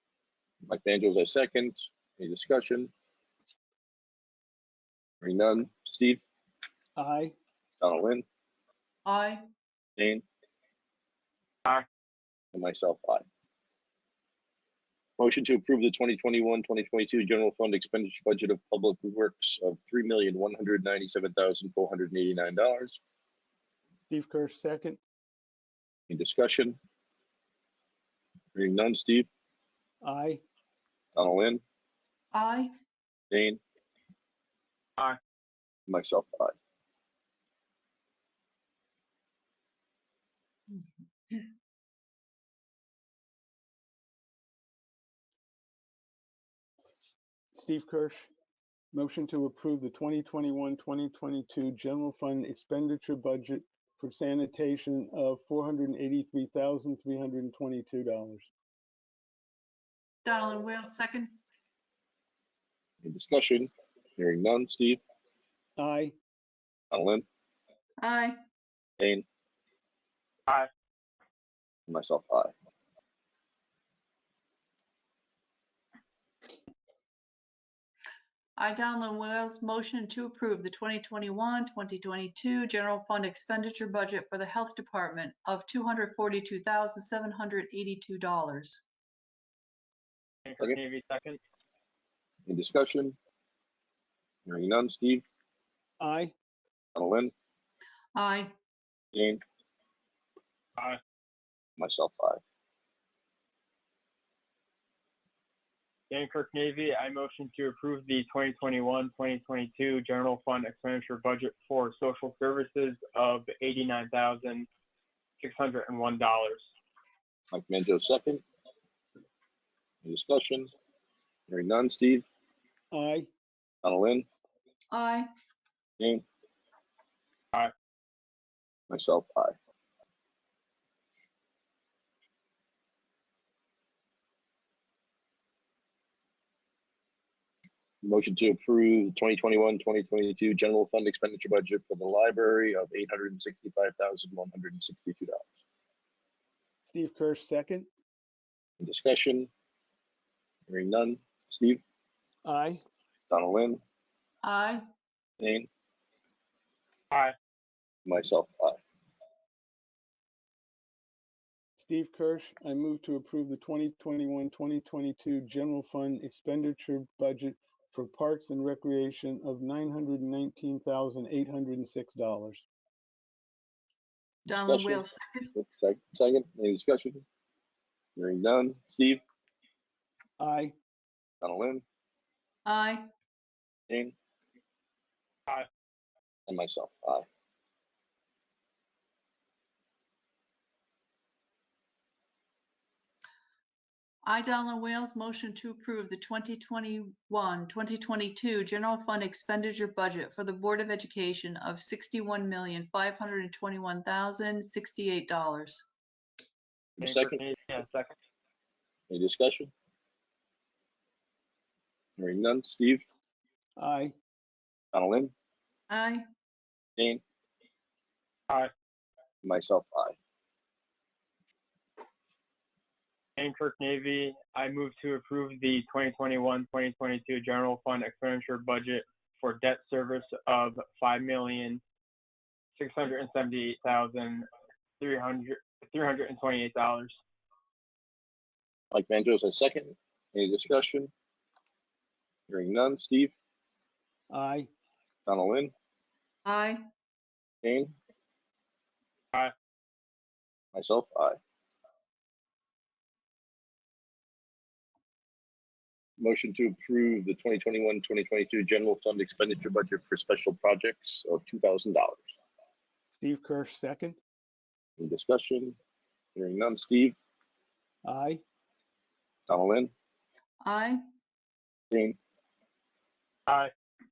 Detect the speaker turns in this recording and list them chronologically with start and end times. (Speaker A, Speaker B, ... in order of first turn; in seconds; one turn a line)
Speaker A: 0.7-2.9
Speaker A: 5.2-6.2
Speaker B: 7.0-7.3
Speaker A: 7.8-8.2
Speaker C: 9.0-9.4
Speaker A: 10.0-10.2
Speaker A: 12.5-13.2
Speaker A: 15.2-23.0
Speaker B: 24.1-25.0
Speaker A: 26.1-26.8
Speaker A: 28.6-29.3
Speaker B: 30.0-30.4
Speaker A: 31.2-31.6
Speaker C: 32.3-32.7
Speaker A: 33.3-33.6
Speaker A: 35.9-36.5
Speaker C: 40.7-41.5
Speaker B: 47.5-48.3
Speaker B: 48.9-58.5
Speaker C: 60.2-61.4
Speaker A: 63.0-65.0
Speaker B: 65.8-66.2
Speaker A: 66.9-67.2
Speaker C: 68.0-68.4
Speaker A: 69.0-69.2
Speaker A: 71.9-72.5
Speaker C: 78.6-88.8
Speaker D: 90.5-91.4
Speaker A: 92.5-93.2
Speaker A: 94.5-95.2
Speaker B: 96.0-96.3
Speaker A: 96.9-97.3
Speaker C: 98.1-98.5
Speaker A: 99.1-99.4
Speaker A: 101.8-102.4
Speaker D: 106.1-114.7
Speaker D: 115.4-116.6
Speaker A: 117.5-118.4
Speaker A: 120.0-120.7
Speaker A: 121.5-122.2
Speaker B: 122.9-123.3
Speaker A: 123.8-124.3
Speaker C: 124.9-125.3
Speaker A: 126.0-126.2
Speaker A: 128.9-129.6
Speaker A: 138.0-145.5
Speaker B: 146.9-147.9
Speaker A: 148.8-149.5
Speaker A: 150.7-151.8
Speaker B: 152.4-152.8
Speaker A: 153.3-153.8
Speaker C: 154.4-154.8
Speaker A: 155.4-155.7
Speaker A: 158.1-158.8
Speaker B: 161.8-172.6
Speaker C: 174.5-175.5
Speaker A: 174.5-177.2
Speaker A: 178.2-179.2
Speaker B: 180.4-180.8
Speaker A: 181.4-181.8
Speaker C: 182.7-183.1
Speaker A: 183.9-184.2
Speaker A: 186.5-187.2
Speaker C: 194.2-205.9
Speaker A: 207.0-207.4
Speaker D: 207.0-208.2
Speaker A: 209.1-209.7
Speaker A: 212.2-213.0
Speaker B: 213.8-214.1
Speaker A: 214.9-215.3
Speaker C: 215.9-216.2
Speaker A: 217.0-217.2
Speaker A: 219.4-220.2
Speaker D: 223.4-231.8
Speaker D: 232.8-234.5
Speaker D: 235.0-237.1
Speaker A: 238.9-241.1
Speaker A: 242.5-243.3
Speaker B: 244.3-244.7
Speaker A: 245.3-245.7
Speaker C: 246.5-246.8
Speaker A: 247.6-247.9
Speaker A: 250.7-251.4
Speaker A: 256.2-262.4
Speaker B: 263.1-264.2
Speaker A: 265.0-265.8
Speaker A: 266.4-267.2
Speaker B: 268.0-268.4
Speaker A: 269.5-269.9
Speaker C: 270.6-271.0
Speaker A: 271.9-272.2